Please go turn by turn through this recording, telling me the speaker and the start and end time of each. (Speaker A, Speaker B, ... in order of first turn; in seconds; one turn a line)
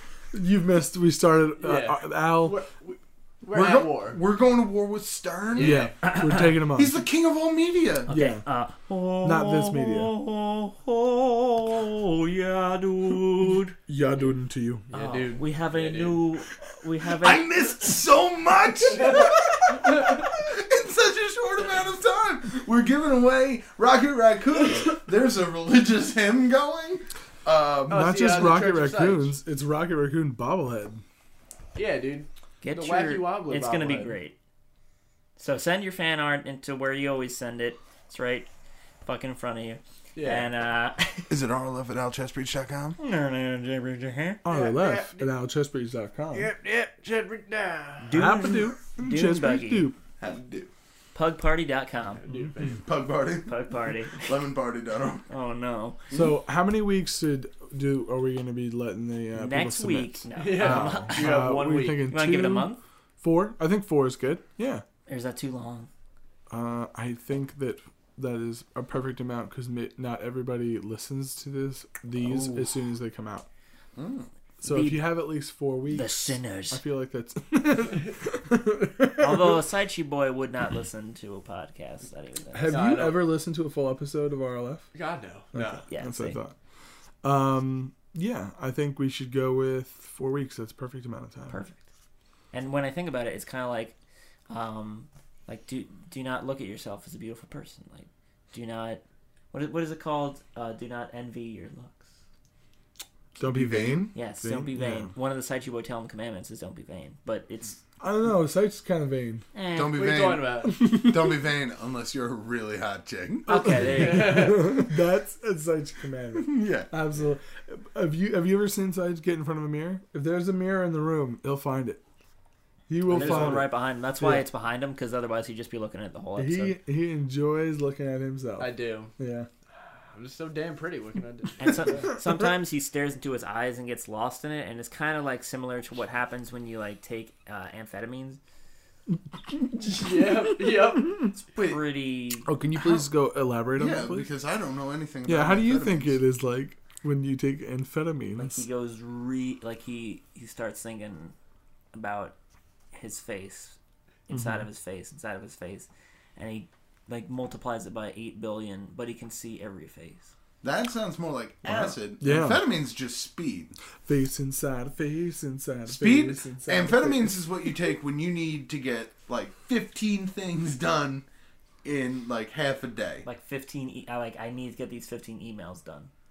Speaker A: 0.3-2.6
Speaker B: 1.6-4.2
Speaker C: 3.5-5.9
Speaker B: 5.5-5.9
Speaker A: 5.6-7.0
Speaker D: 6.0-6.5
Speaker C: 6.7-8.1
Speaker D: 8.1-13.8
Speaker A: 8.1-8.4
Speaker A: 9.2-10.1
Speaker A: 13.9-14.9
Speaker B: 14.9-16.2
Speaker D: 14.9-17.5
Speaker C: 17.1-28.1
Speaker B: 27.9-29.3
Speaker A: 27.9-31.0
Speaker B: 31.7-34.2
Speaker D: 32.6-34.3
Speaker D: 35.4-38.5
Speaker D: 39.0-41.3
Speaker B: 40.1-40.5
Speaker C: 41.3-43.0
Speaker D: 43.0-44.4
Speaker A: 44.4-46.5
Speaker B: 44.5-45.3
Speaker B: 46.3-48.1
Speaker D: 48.0-49.9
Speaker A: 48.1-50.0
Speaker C: 50.2-50.7
Speaker D: 51.1-52.2
Speaker B: 52.2-52.8
Speaker C: 52.8-53.6
Speaker D: 53.5-54.3
Speaker C: 54.1-55.3
Speaker D: 55.3-56.0
Speaker A: 56.1-62.7
Speaker D: 59.4-62.8
Speaker B: 60.4-62.0
Speaker A: 63.2-64.8
Speaker D: 65.1-65.9
Speaker A: 66.5-73.5
Speaker C: 72.3-72.5
Speaker C: 74.0-74.3
Speaker A: 74.6-79.6
Speaker D: 74.6-75.1
Speaker D: 75.9-76.8
Speaker D: 79.2-82.8
Speaker A: 82.5-84.9
Speaker B: 82.7-83.3
Speaker B: 84.9-85.8
Speaker A: 85.5-86.5
Speaker D: 85.9-86.4
Speaker A: 87.2-91.6
Speaker D: 91.5-91.8
Speaker D: 92.5-93.9
Speaker D: 94.5-102.1
Speaker A: 103.4-105.1
Speaker C: 103.4-104.1
Speaker D: 104.1-107.8
Speaker A: 108.0-109.4
Speaker D: 109.5-110.1
Speaker C: 109.7-113.6
Speaker B: 109.9-110.8
Speaker A: 110.6-111.4
Speaker D: 113.5-114.7
Speaker A: 113.5-122.0
Speaker B: 113.8-114.9
Speaker C: 116.3-116.9
Speaker A: 122.9-124.5
Speaker D: 123.1-126.8
Speaker A: 126.4-129.5
Speaker B: 128.6-129.1
Speaker B: 129.9-132.0
Speaker D: 131.6-138.4
Speaker B: 139.8-141.3
Speaker D: 141.5-142.5
Speaker C: 141.5-141.8
Speaker A: 142.4-144.3
Speaker C: 142.7-143.0
Speaker C: 143.8-146.2
Speaker A: 145.2-148.6
Speaker D: 148.3-151.3
Speaker D: 151.9-152.3
Speaker D: 152.9-153.8
Speaker D: 154.3-160.3
Speaker A: 154.3-154.7
Speaker C: 160.6-163.8
Speaker A: 162.2-162.6
Speaker A: 164.1-167.4
Speaker C: 165.9-171.2
Speaker C: 171.8-173.2
Speaker D: 173.2-176.1